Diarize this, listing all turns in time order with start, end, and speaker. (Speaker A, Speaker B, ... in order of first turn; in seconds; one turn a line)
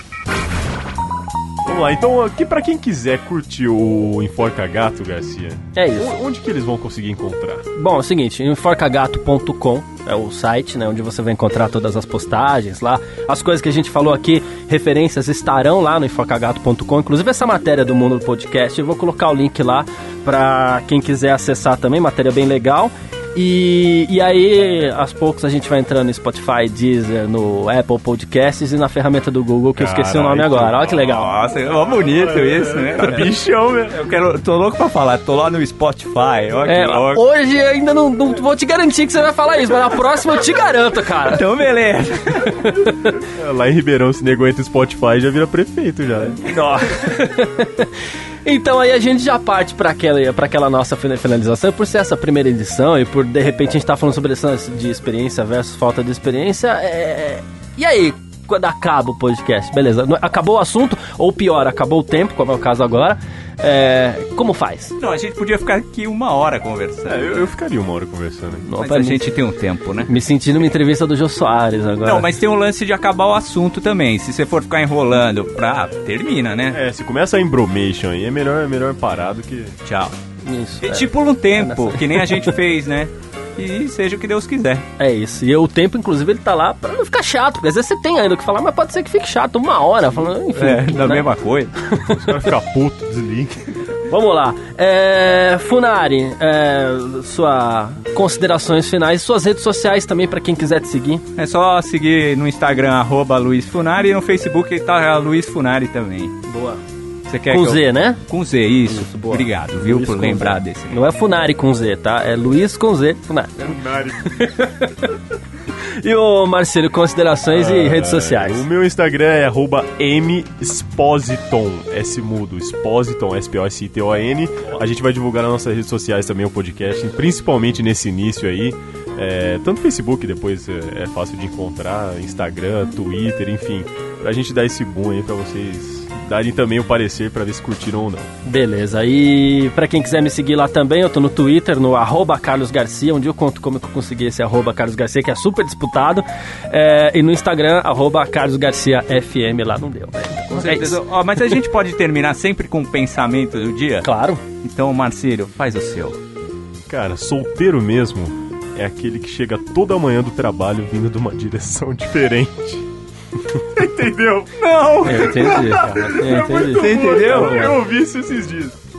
Speaker A: 1.6-7.7
Speaker B: 5.7-6.2
Speaker B: 7.7-31.3
Speaker A: 29.8-30.8
Speaker C: 30.8-33.3
Speaker A: 32.1-34.0
Speaker C: 33.9-37.2
Speaker B: 36.6-41.4
Speaker C: 41.2-42.6
Speaker B: 42.6-43.1
Speaker A: 43.0-46.4
Speaker B: 46.4-64.9
Speaker C: 65.0-67.5
Speaker A: 67.1-68.7
Speaker B: 68.7-69.3
Speaker C: 68.8-70.1
Speaker B: 70.0-72.3
Speaker C: 72.0-76.8
Speaker A: 76.7-79.8
Speaker C: 79.8-80.1
Speaker B: 80.4-82.5
Speaker C: 80.8-84.8
Speaker B: 85.0-91.2
Speaker C: 90.5-91.7
Speaker B: 91.9-92.2
Speaker A: 92.1-93.6
Speaker B: 94.1-101.2
Speaker C: 101.4-106.3
Speaker B: 106.5-106.8
Speaker C: 107.3-111.0
Speaker B: 107.5-108.2
Speaker B: 108.8-115.2
Speaker A: 113.7-114.4
Speaker B: 116.0-118.6
Speaker A: 117.5-138.3
Speaker B: 138.4-151.0
Speaker C: 150.5-154.1
Speaker B: 154.0-154.4
Speaker C: 154.6-156.2
Speaker A: 156.9-162.9
Speaker A: 163.5-168.8
Speaker C: 164.6-165.8
Speaker B: 165.0-167.7
Speaker C: 166.7-167.7